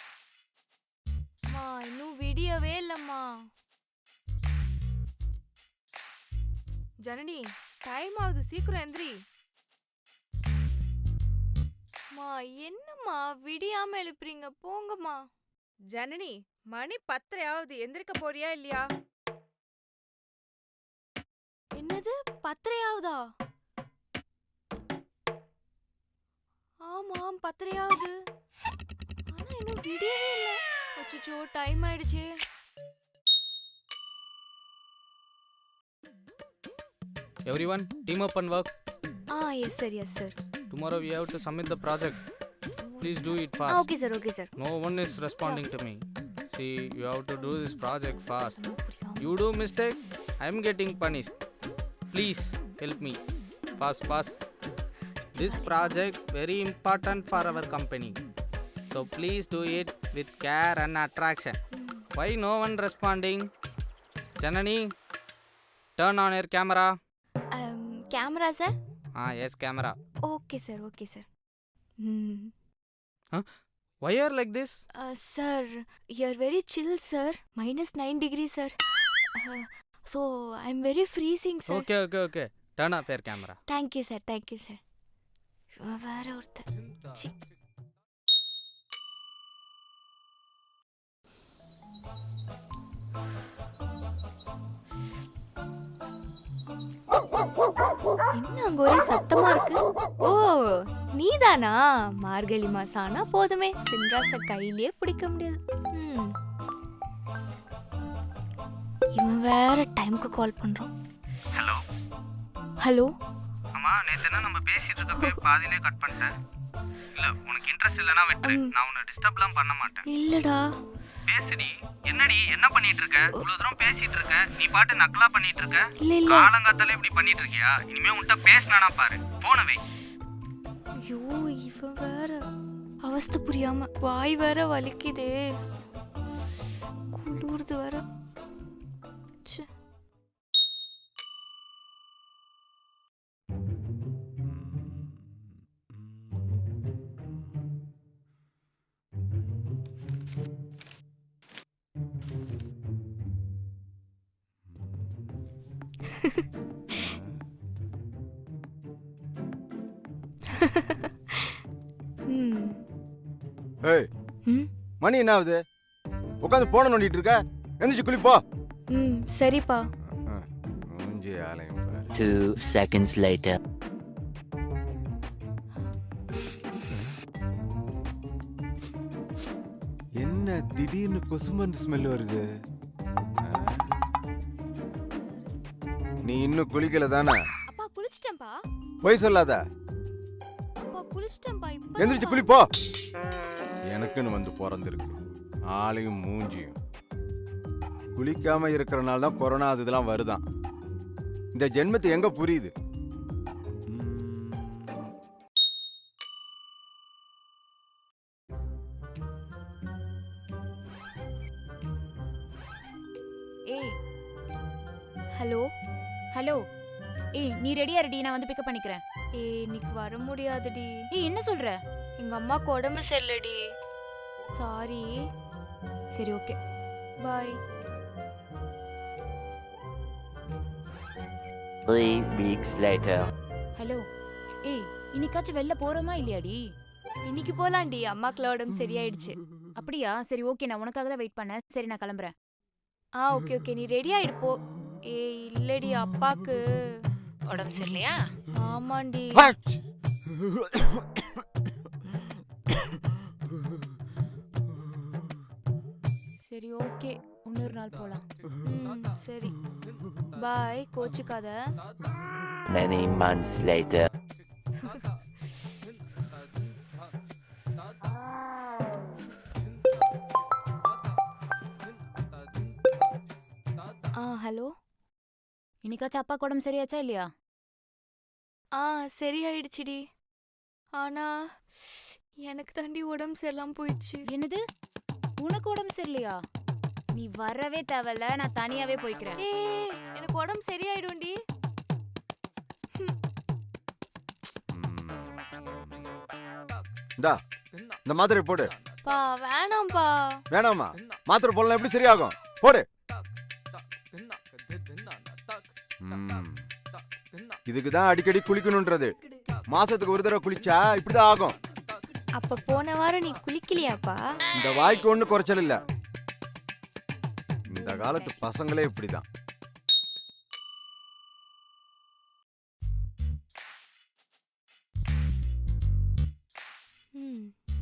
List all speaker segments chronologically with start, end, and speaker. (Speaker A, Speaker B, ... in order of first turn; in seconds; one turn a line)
Speaker A: 1.5-3.3
Speaker B: 7.0-9.2
Speaker A: 12.1-15.2
Speaker B: 15.9-18.9
Speaker A: 21.8-23.2
Speaker A: 26.8-28.1
Speaker A: 29.3-32.3
Speaker C: 37.5-38.7
Speaker A: 39.3-40.3
Speaker C: 40.7-42.2
Speaker C: 43.0-43.9
Speaker A: 43.6-44.5
Speaker C: 44.5-48.5
Speaker A: 48.4-49.3
Speaker C: 49.2-51.3
Speaker C: 52.1-53.2
Speaker C: 53.8-54.4
Speaker C: 55.4-58.1
Speaker A: 55.4-55.8
Speaker C: 58.9-61.6
Speaker A: 61.7-62.1
Speaker C: 62.1-63.5
Speaker C: 64.4-64.9
Speaker C: 66.0-67.0
Speaker A: 67.5-68.7
Speaker C: 69.2-70.0
Speaker A: 70.3-71.2
Speaker A: 72.0-72.5
Speaker C: 74.0-74.8
Speaker A: 75.0-81.8
Speaker C: 81.7-83.6
Speaker A: 83.7-84.8
Speaker A: 85.8-87.3
Speaker A: 98.3-106.3
Speaker A: 109.1-110.9
Speaker C: 111.5-111.8
Speaker A: 112.8-113.1
Speaker C: 113.7-116.3
Speaker A: 115.1-115.4
Speaker C: 117.1-120.0
Speaker A: 118.4-118.7
Speaker A: 120.0-120.7
Speaker C: 121.3-129.8
Speaker A: 126.0-126.5
Speaker A: 131.0-132.4
Speaker A: 133.0-135.4
Speaker A: 137.1-138.0
Speaker D: 144.4-145.2
Speaker D: 156.9-157.3
Speaker A: 160.5-161.1
Speaker A: 162.3-162.8
Speaker D: 163.8-164.1
Speaker D: 165.0-165.6
Speaker D: 166.4-168.4
Speaker A: 168.9-169.8
Speaker D: 170.1-172.2
Speaker E: 172.1-173.6
Speaker D: 180.2-182.4
Speaker D: 183.4-183.9
Speaker D: 186.2-187.4
Speaker A: 187.7-188.5
Speaker D: 189.0-189.6
Speaker A: 190.9-192.5
Speaker D: 192.0-192.7
Speaker D: 193.8-195.2
Speaker D: 195.7-196.7
Speaker D: 198.1-200.4
Speaker D: 201.5-202.7
Speaker D: 203.9-205.0
Speaker A: 215.4-215.7
Speaker F: 216.3-216.6
Speaker F: 217.3-219.0
Speaker A: 219.4-221.0
Speaker F: 221.1-221.8
Speaker A: 222.2-223.6
Speaker A: 224.6-225.1
Speaker F: 226.1-226.6
Speaker A: 227.2-227.6
Speaker E: 231.9-233.3
Speaker F: 234.6-236.6
Speaker A: 237.3-239.3
Speaker F: 239.8-242.3
Speaker A: 243.2-244.6
Speaker A: 245.1-246.6
Speaker F: 247.5-248.1
Speaker A: 248.5-249.5
Speaker D: 249.3-249.8
Speaker D: 250.3-251.4
Speaker F: 256.5-258.2
Speaker A: 258.6-259.5
Speaker A: 260.3-261.6
Speaker E: 262.7-264.1
Speaker A: 274.1-274.7
Speaker F: 275.8-277.2
Speaker A: 278.8-280.0
Speaker A: 281.0-284.2
Speaker F: 284.3-284.6
Speaker F: 285.4-286.4
Speaker F: 287.1-289.4
Speaker A: 289.4-291.4
Speaker D: 294.7-295.3
Speaker D: 298.1-298.7
Speaker A: 299.1-300.4
Speaker D: 300.5-302.9
Speaker D: 306.0-306.6
Speaker D: 307.7-309.1
Speaker D: 309.7-311.6
Speaker A: 312.4-314.2
Speaker D: 314.5-315.8
Speaker D: 317.7-319.2
Speaker A: 317.9-318.2
Speaker A: 327.2-327.5